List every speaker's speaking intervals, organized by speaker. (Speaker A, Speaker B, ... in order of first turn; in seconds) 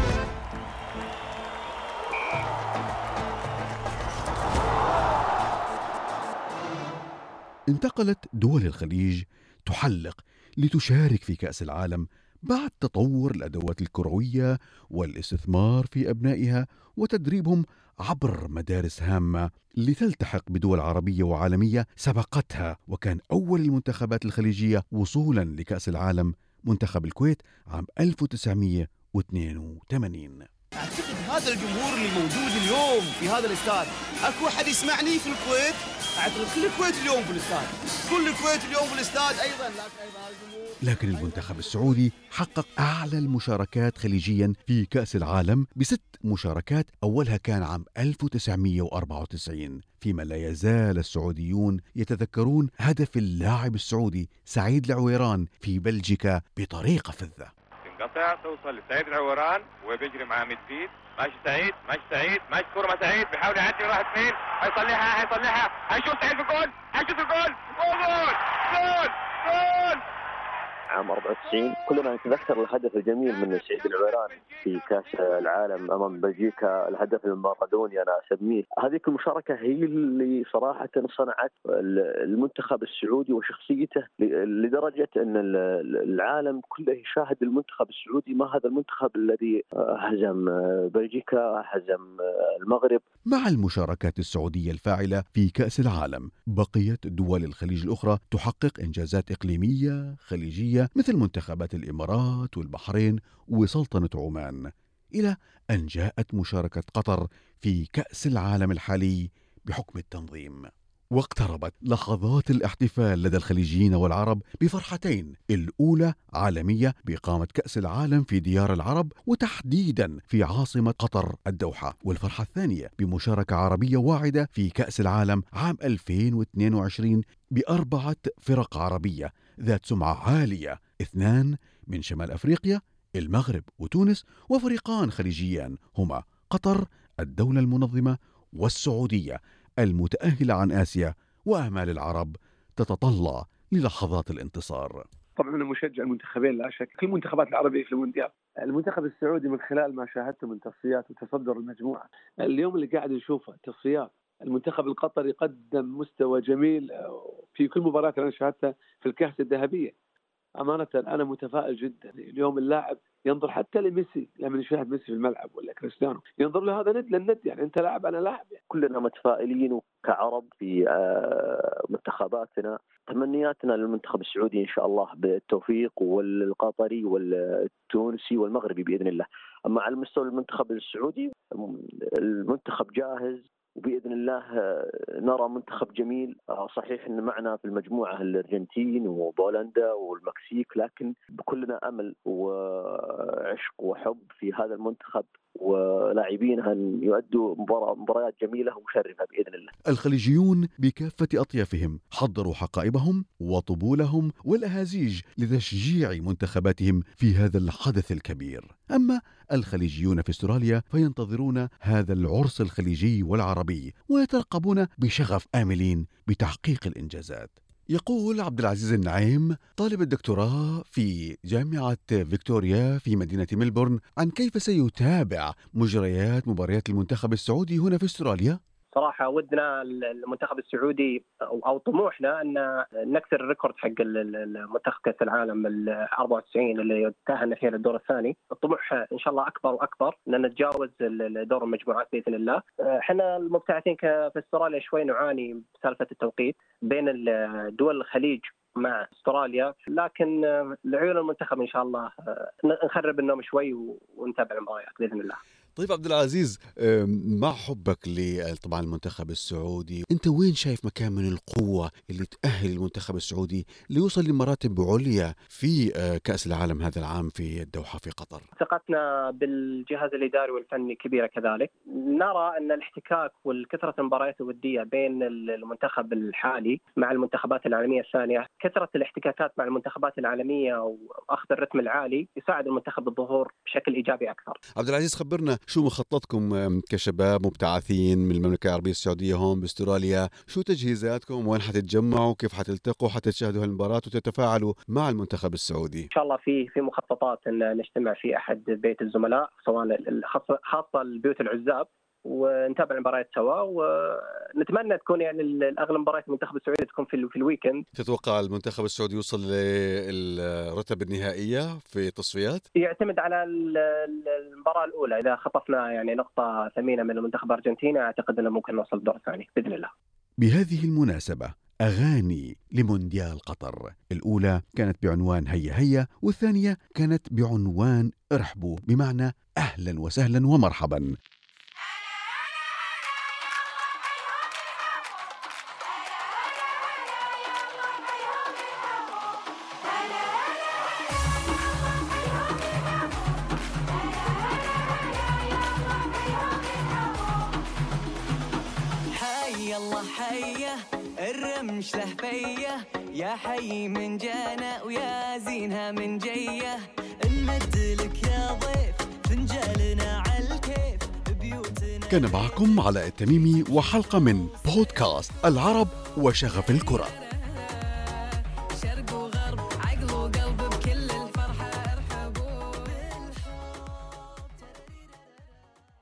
Speaker A: 7.7-30.4, 40.8-57.5, 93.3-104.6, 105.1-145.0, 199.9-228.6, 255.8-268.4, 284.8-296.1, 307.9-312.6, 320.4-331.1, 362.1-367.1
Speaker B: 30.8-40.6
Speaker C: 57.9-70.0
Speaker D: 70.9-93.0, 168.7-199.7
Speaker E: 145.4-159.9, 160.6-168.6
Speaker F: 228.9-255.4, 268.6-284.6, 296.1-307.8, 312.8-319.9
Speaker G: 349.1-362.7, 367.0-375.4